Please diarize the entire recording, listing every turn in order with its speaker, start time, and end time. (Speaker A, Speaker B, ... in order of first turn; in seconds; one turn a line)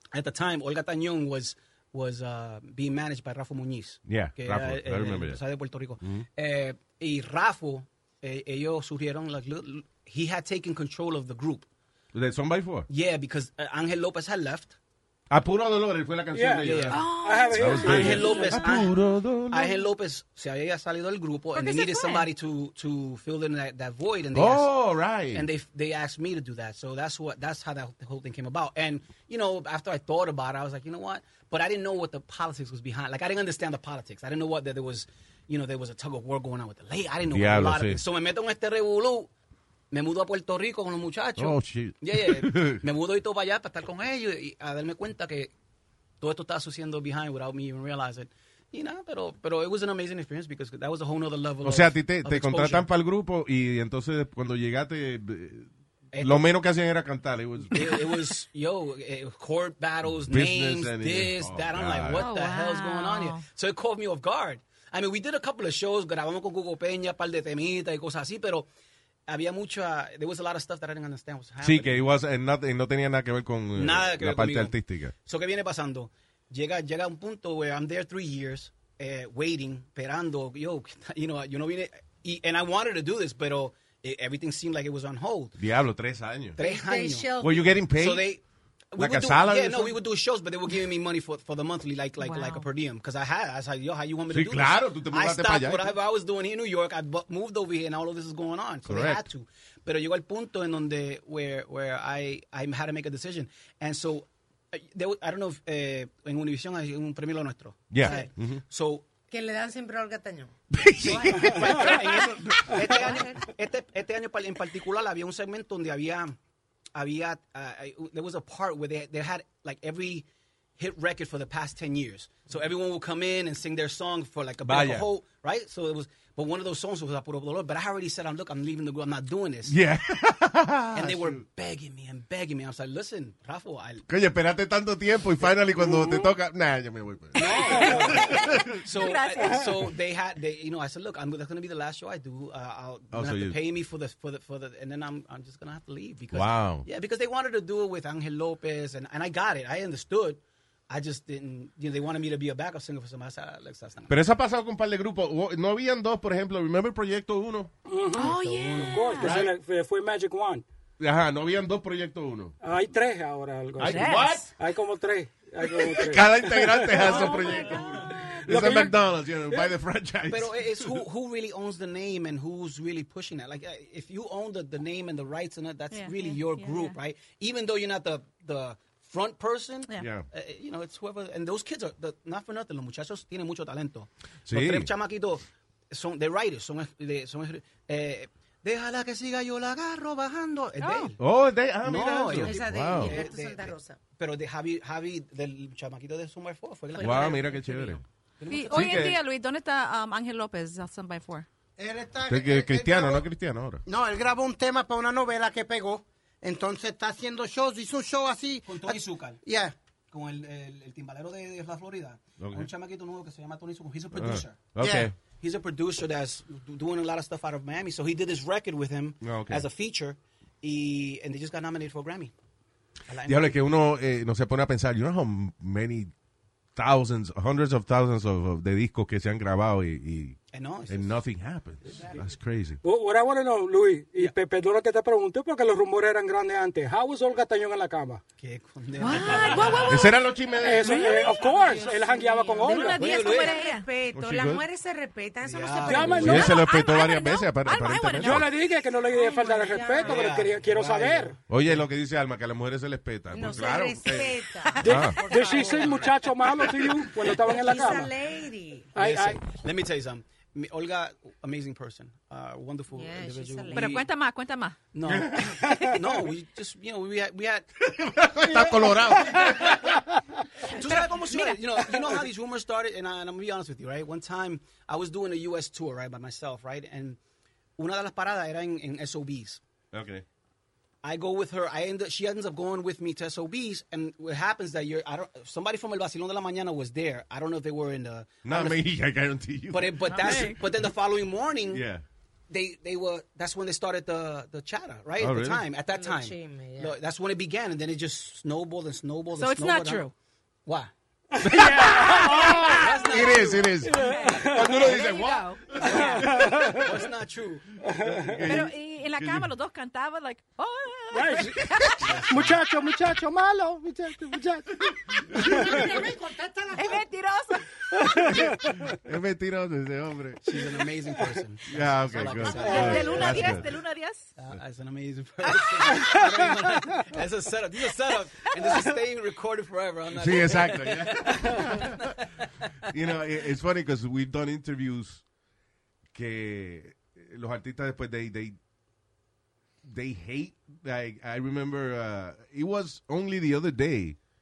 Speaker A: 0.1-11.7
Speaker B: 4.0-5.4
Speaker B: 6.0-6.2
Speaker B: 12.1-12.9
Speaker A: 12.9-14.8
Speaker B: 15.3-19.8
Speaker C: 16.3-18.6
Speaker A: 16.6-17.1
Speaker D: 16.9-18.6
Speaker A: 17.8-18.9
Speaker A: 19.5-24.7
Speaker D: 21.5-22.3
Speaker B: 24.3-25.5
Speaker A: 25.3-39.3
Speaker B: 37.3-38.0
Speaker A: 39.9-45.5
Speaker B: 41.4-42.8
Speaker A: 46.2-52.9
Speaker B: 51.6-58.1
Speaker A: 56.1-56.5
Speaker A: 57.7-68.7
Speaker B: 60.2-62.2
Speaker D: 62.1-63.4
Speaker A: 69.3-72.0
Speaker B: 71.6-75.1
Speaker A: 73.8-85.5
Speaker B: 85.6-86.6
Speaker A: 86.5-109.1
Speaker E: 86.6-87.7
Speaker B: 87.4-88.3
Speaker B: 89.0-90.0
Speaker D: 92.2-92.7
Speaker B: 94.3-95.9
Speaker B: 98.9-99.2
Speaker B: 107.9-108.6
Speaker E: 109.3-110.5
Speaker B: 110.7-112.9
Speaker E: 111.0-111.6
Speaker A: 111.0-116.4
Speaker E: 112.8-113.4
Speaker A: 116.9-120.2
Speaker A: 120.8-129.7
Speaker B: 124.6-125.1
Speaker B: 129.7-131.4
Speaker A: 130.9-134.0
Speaker B: 134.1-138.8
Speaker D: 137.3-139.7
Speaker A: 137.3-154.2
Speaker B: 143.1-143.6
Speaker B: 146.3-146.8
Speaker B: 154.1-157.7
Speaker C: 157.9-160.6
Speaker A: 158.1-159.3
Speaker D: 158.1-159.4
Speaker B: 159.2-159.5
Speaker B: 161.0-162.5
Speaker C: 162.6-167.1
Speaker B: 163.8-164.5
Speaker D: 163.8-164.5
Speaker B: 165.7-171.0
Speaker D: 168.0-168.3
Speaker C: 168.2-169.0
Speaker A: 170.3-191.2
Speaker D: 175.9-176.9
Speaker B: 180.0-180.2
Speaker B: 184.4-184.9
Speaker D: 190.8-191.1
Speaker B: 191.2-193.2
Speaker A: 191.8-197.7
Speaker E: 192.3-194.0
Speaker E: 196.9-198.0
Speaker B: 197.0-198.0
Speaker A: 198.4-199.1
Speaker D: 198.5-201.5
Speaker B: 198.7-199.2
Speaker F: 201.8-203.2
Speaker B: 202.3-203.8
Speaker F: 203.8-209.7
Speaker A: 208.6-209.4
Speaker A: 210.1-214.6
Speaker B: 212.4-212.7
Speaker B: 214.1-215.1
Speaker F: 214.8-215.1
Speaker A: 215.4-222.3
Speaker B: 219.2-219.7
Speaker A: 223.1-223.6
Speaker B: 223.2-226.1
Speaker B: 226.8-232.8
Speaker A: 230.5-231.1
Speaker C: 232.8-238.2
Speaker A: 238.4-239.9
Speaker D: 239.0-240.2
Speaker B: 239.8-241.2
Speaker C: 240.6-243.0
Speaker E: 241.1-246.7
Speaker D: 242.6-243.9
Speaker A: 242.9-243.6
Speaker B: 244.1-244.6
Speaker A: 245.4-246.4
Speaker C: 245.8-246.5
Speaker B: 246.2-248.5
Speaker D: 246.3-248.5
Speaker C: 248.1-251.3
Speaker E: 249.0-250.5
Speaker A: 250.0-251.8
Speaker B: 251.5-255.2
Speaker E: 253.3-258.9
Speaker C: 254.8-258.1
Speaker A: 255.8-256.0
Speaker C: 258.9-259.4
Speaker A: 258.9-264.1
Speaker E: 262.9-264.0
Speaker D: 263.7-264.8
Speaker A: 264.9-267.7
Speaker B: 265.1-265.8
Speaker B: 267.8-269.8
Speaker A: 270.7-277.2
Speaker D: 270.7-271.6
Speaker A: 277.8-279.6
Speaker B: 279.9-280.2
Speaker A: 281.0-288.8
Speaker B: 288.4-290.5
Speaker A: 289.7-291.8
Speaker D: 290.1-290.6
Speaker B: 291.7-292.0
Speaker A: 292.5-300.1
Speaker B: 295.2-295.6
Speaker E: 295.9-296.9
Speaker D: 299.4-300.1
Speaker A: 300.6-300.9
Speaker C: 301.3-303.2
Speaker B: 301.4-301.9
Speaker D: 301.9-302.9
Speaker A: 302.4-303.7
Speaker B: 302.9-306.7
Speaker C: 303.8-304.9
Speaker D: 303.9-306.4
Speaker C: 305.8-306.8
Speaker A: 306.7-307.6
Speaker C: 307.8-308.5
Speaker B: 307.9-309.5
Speaker D: 308.4-312.2
Speaker C: 311.1-311.7
Speaker A: 312.0-312.6
Speaker C: 312.3-315.8
Speaker F: 315.3-317.0
Speaker B: 315.3-315.8
Speaker D: 316.8-317.7
Speaker C: 317.9-318.8
Speaker B: 318.2-320.4
Speaker A: 320.4-323.6
Speaker B: 321.7-323.7
Speaker D: 322.4-324.3
Speaker C: 322.6-323.4
Speaker A: 324.4-331.9
Speaker B: 330.1-332.1
Speaker B: 332.9-335.2
Speaker B: 336.1-338.6
Speaker B: 339.8-344.2